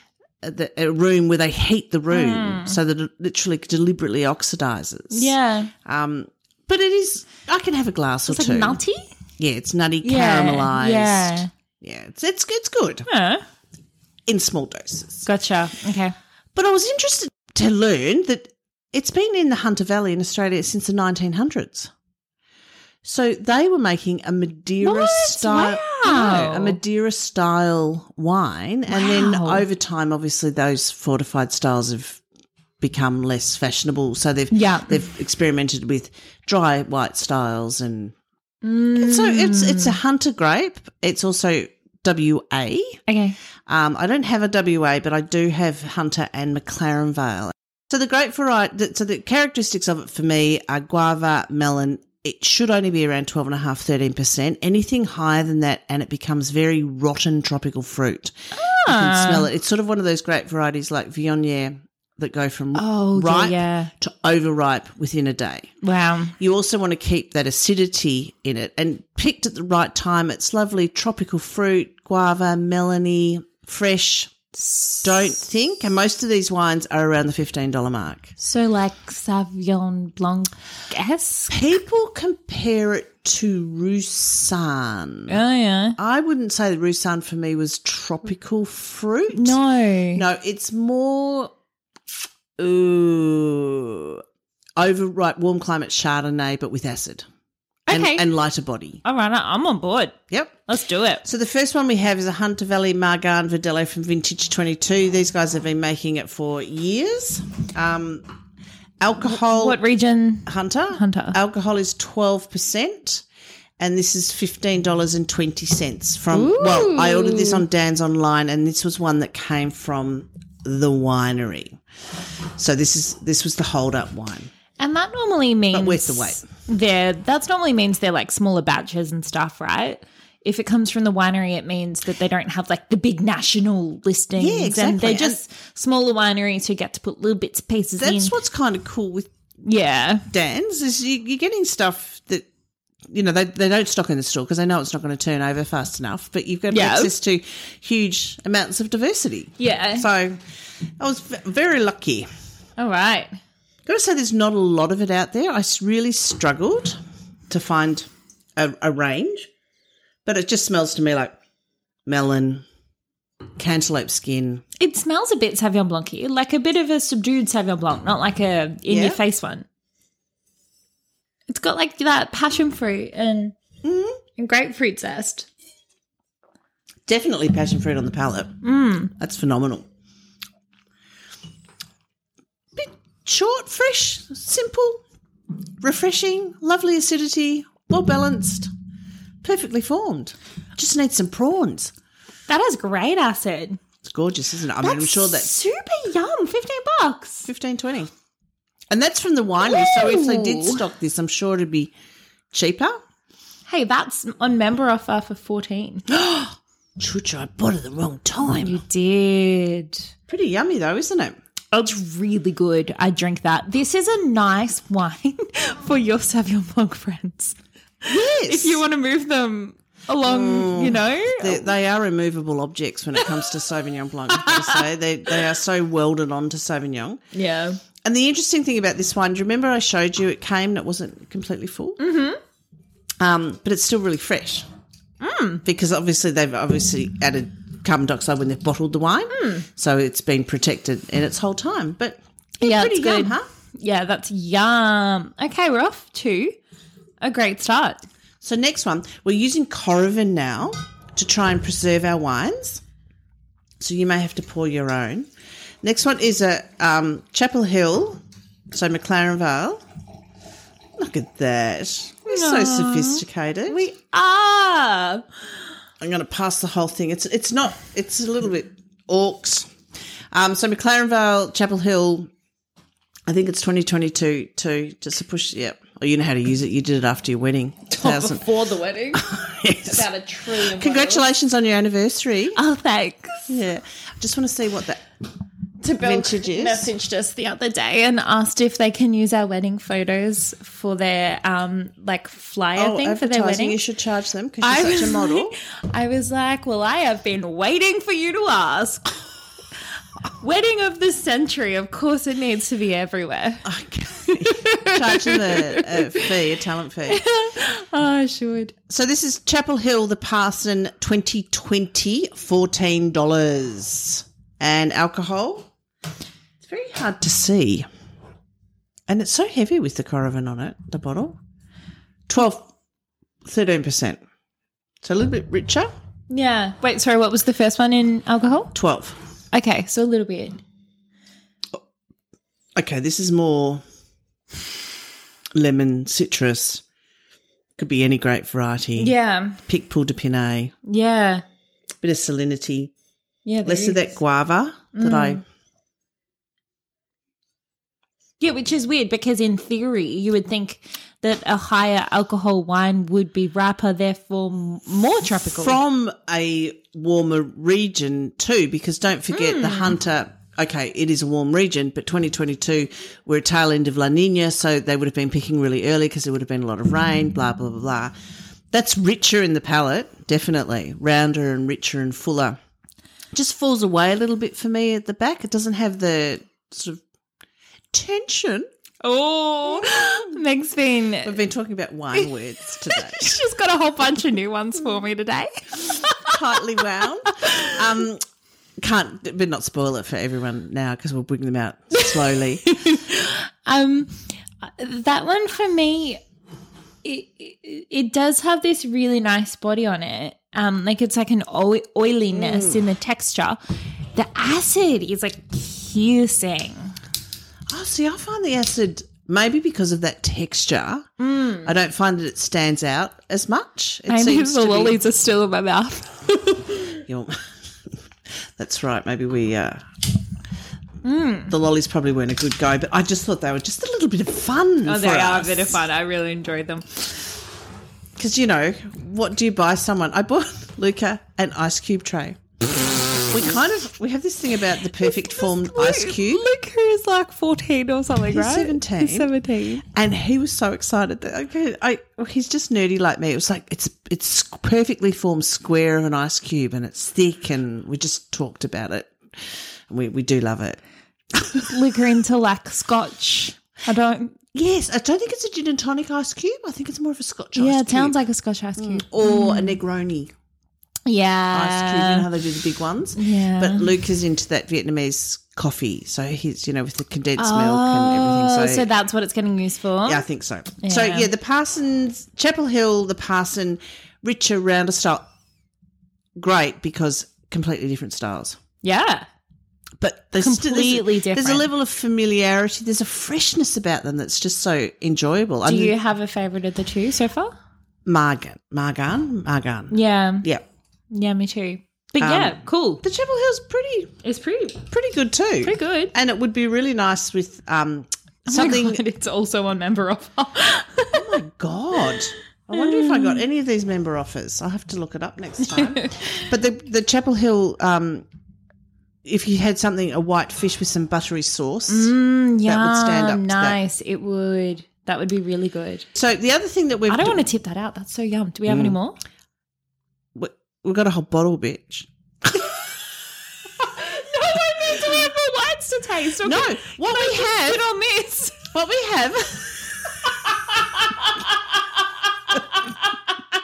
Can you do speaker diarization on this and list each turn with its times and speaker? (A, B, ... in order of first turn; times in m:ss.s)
0:00.4-0:08.8 A
0:02.1-0:02.8 B
0:05.1-0:05.7 B
0:08.3-0:09.1 B
0:09.4-0:13.1 A
0:10.0-0:11.5 B
0:13.1-0:13.4 B
0:14.3-0:15.3 A
0:15.2-0:16.2 B
0:16.6-0:21.9 A
0:23.0-0:32.2 A
0:24.8-0:26.8 B
0:28.9-0:29.6 B
0:32.8-0:38.2 A
0:34.5-0:35.0 B
0:38.6-0:40.0 B
0:39.0-0:43.0 A
0:43.1-0:43.4 B
0:43.7-1:05.7 A
0:58.5-0:59.5 B
1:02.8-1:03.9 B
1:05.8-1:06.3 B
1:06.4-1:14.4 A
1:14.7-1:15.3 B
1:15.0-1:18.3 A
1:18.4-1:21.6 B
1:21.5-1:25.4 A
1:25.3-1:26.0 B
1:26.0-1:29.6 A
1:29.3-1:30.2 B
1:30.1-1:31.5 A
1:32.6-1:34.2 A
1:34.8-1:37.3 A
1:37.9-1:38.3 B
1:37.9-1:39.0 A
1:39.0-1:41.2 B
1:40.3-1:40.6 A
1:41.2-1:48.2 A
1:49.0-1:49.8 A
1:49.3-1:51.4 B
1:50.5-1:53.2 A
1:53.8-2:01.8 A
1:56.3-1:57.6 B
2:02.6-2:04.5 A
2:04.8-2:18.4 B
2:05.7-2:06.4 A
2:14.4-2:15.4 A
2:18.0-2:19.3 A
2:19.6-2:20.3 B
2:20.3-2:22.5 A
2:23.1-2:30.4 A
2:26.7-2:27.1 B
2:29.6-2:30.1 B
2:31.0-2:32.3 A
2:32.8-2:33.4 B
2:33.9-2:37.0 A
2:37.5-2:39.5 A
2:40.2-2:41.4 A
2:42.1-2:42.6 A
2:43.6-2:44.6 A
2:44.8-2:49.7 B
2:48.9-2:49.2 A
2:51.5-2:53.6 B
2:53.8-2:54.2 A
2:54.4-2:55.5 B
2:57.1-2:58.6 A
2:58.6-2:59.1 B
2:59.2-2:59.8 A
3:02.8-3:05.0 A
3:05.8-3:08.7 A
3:09.4-3:11.9 A
3:12.5-3:13.8 B
3:14.0-3:15.6 A
3:14.8-3:17.5 B
3:17.5-3:18.1 A
3:18.9-3:21.9 A
3:19.6-3:20.8 B
3:22.5-3:23.0 A
3:23.7-3:26.1 B
3:26.1-3:28.8 A
3:28.6-3:30.1 B
3:30.3-3:31.4 A
3:31.7-3:41.7 B
3:38.1-3:38.8 A
3:40.2-3:47.2 A
3:44.3-3:44.8 B
3:47.3-3:47.8 B
3:48.0-3:52.0 A
3:52.0-3:52.4 B
3:53.2-3:54.7 A
3:55.2-3:55.6 B
3:55.6-4:03.5 A
3:59.3-3:59.7 B
4:02.6-4:06.6 B
4:07.2-4:08.0 B
4:08.4-4:12.8 A
4:13.8-4:15.3 A
4:15.8-4:19.8 A
4:21.0-4:23.8 A
4:22.3-4:25.3 B
4:26.0-4:29.7 A
4:30.3-4:32.3 A
4:33.3-4:38.5 A
4:37.9-4:39.3 B
4:39.1-4:42.6 A
4:39.8-4:41.3 B
4:42.5-4:43.5 B
4:43.5-4:45.0 A
4:45.8-4:53.8 B
4:45.9-4:46.9 A
4:52.8-4:55.6 A
4:54.6-4:59.1 B
5:00.4-5:03.7 B
5:03.6-5:07.2 A
5:04.3-5:06.4 B
5:07.1-5:08.8 B
5:08.9-5:15.7 A
5:16.6-5:17.9 A
5:19.1-5:21.4 A
5:22.3-5:22.7 A
5:23.4-5:24.2 A
5:25.0-5:25.9 A
5:26.3-5:28.7 B
5:28.7-5:29.2 A
5:29.5-5:30.6 B
5:32.8-5:33.8 A
5:35.6-5:36.8 A
5:37.8-5:39.1 A
5:39.0-5:39.6 B
5:39.7-5:40.7 A
5:40.9-5:41.4 B
5:42.0-5:42.9 A
5:43.4-5:44.1 B
5:43.6-5:45.4 A
5:44.9-5:45.4 B
5:48.4-5:55.8 B
5:55.4-6:08.1 A
5:59.3-6:00.0 B
6:08.7-6:12.6 A
6:13.3-6:17.0 A
6:17.9-6:18.7 A
6:19.0-6:21.4 B
6:19.8-6:20.3 A
6:21.2-6:23.4 A
6:22.8-6:26.4 B
6:26.2-6:28.2 A
6:27.3-6:27.8 B
6:28.8-6:32.7 A
6:32.6-6:36.2 B
6:37.0-6:43.6 B
6:42.3-6:42.8 A
6:44.1-6:47.0 B
6:47.7-6:51.1 A
6:51.2-6:51.7 B
6:51.6-6:55.0 A
6:54.1-6:57.0 B
6:57.0-6:59.8 A
7:01.0-7:01.5 B
7:01.5-7:05.8 A
7:04.8-7:07.2 B
7:08.2-7:12.4 A
7:13.2-7:16.5 A
7:15.0-7:19.8 B
7:18.3-7:19.3 A
7:19.8-7:30.8 A
7:31.3-7:31.8 A
7:31.6-7:34.4 B
7:34.5-7:38.2 A
7:37.6-7:39.8 B
7:38.8-7:40.3 A
7:41.1-7:42.3 B
7:41.5-7:48.9 A
7:43.2-7:43.9 B
7:47.4-7:50.2 B
7:50.0-7:55.2 A
7:50.8-7:51.3 B
7:56.4-7:58.6 A
7:58.8-7:59.3 B
8:00.0-8:05.9 A
8:00.4-8:01.7 B
8:05.6-8:07.5 B
8:08.1-8:10.6 A
8:09.9-8:10.5 B
8:11.1-8:13.0 B
8:12.2-8:14.2 A
8:14.2-8:14.9 B
8:14.9-8:19.0 A
8:15.6-8:16.1 B
8:18.5-8:21.4 B
8:21.1-8:28.3 A
8:22.8-8:23.4 B
8:25.7-8:26.4 B
8:29.2-8:32.1 A
8:31.9-8:36.1 B
8:32.6-8:33.8 A
8:36.1-8:37.4 A
8:37.1-8:39.2 B
8:38.7-8:39.0 A
8:40.4-8:42.8 A
8:43.9-8:48.7 B
8:46.4-8:47.8 A
8:48.7-8:50.4 A
8:50.4-8:51.5 B
8:52.6-8:52.9 B